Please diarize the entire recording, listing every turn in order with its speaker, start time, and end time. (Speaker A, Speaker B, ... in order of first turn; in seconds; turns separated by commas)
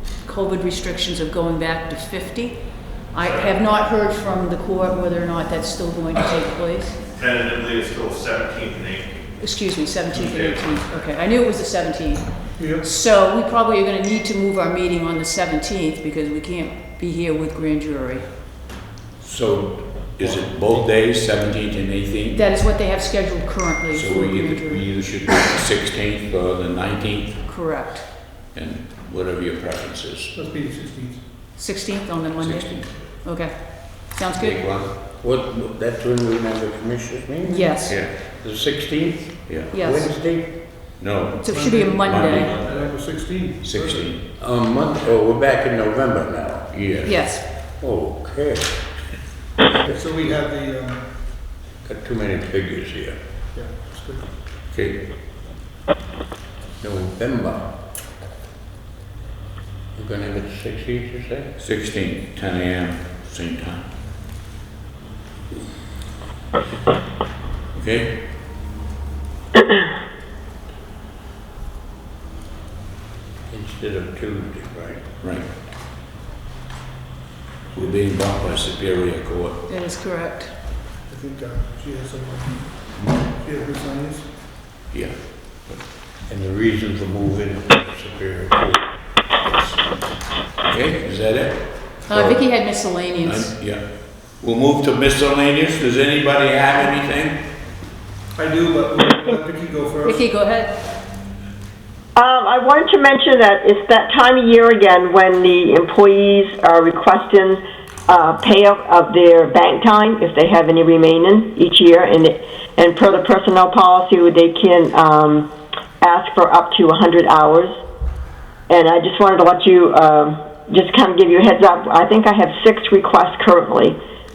Speaker A: 0.2-7.0, Speaker B: 3.2-3.5, Speaker B: 7.1-9.2, Speaker A: 9.4-18.3, Speaker B: 10.1-10.6, Speaker C: 12.6-12.8, Speaker D: 19.2-22.4, Speaker C: 20.2-20.5, Speaker A: 22.3-24.8, Speaker D: 23.9-27.5, Speaker A: 27.4-28.1, Speaker D: 28.5-30.3, Speaker C: 30.3-31.2, Speaker A: 31.6-34.6, Speaker D: 32.4-33.1, Speaker D: 34.4-35.0, Speaker E: 35.0-40.7, Speaker A: 37.5-38.0, Speaker D: 37.9-38.1, Speaker D: 39.5-39.7, Speaker A: 39.7-40.1, Speaker D: 41.0-43.0, Speaker A: 41.4-42.6, Speaker C: 41.5-44.1, Speaker D: 43.6-44.2, Speaker E: 44.4-46.7, Speaker D: 46.7-47.2, Speaker A: 47.0-47.5, Speaker E: 47.8-48.8, Speaker C: 49.8-51.2, Speaker E: 51.8-53.2, Speaker C: 53.5-54.3, Speaker D: 54.7-55.0, Speaker E: 56.8-57.7, Speaker E: 60.0-61.5, Speaker D: 61.6-63.9, Speaker D: 67.7-68.2, Speaker E: 73.5-75.0, Speaker D: 75.2-75.5, Speaker D: 77.7-79.7, Speaker A: 79.7-80.6, Speaker C: 81.1-84.3, Speaker D: 84.9-85.8, Speaker E: 86.3-89.0, Speaker D: 90.6-97.5, Speaker A: 92.1-93.6, Speaker C: 98.3-100.3, Speaker A: 100.0-100.8, Speaker F: 102.2-115.5, Speaker F: 116.0-117.8, Speaker F: 118.7-124.0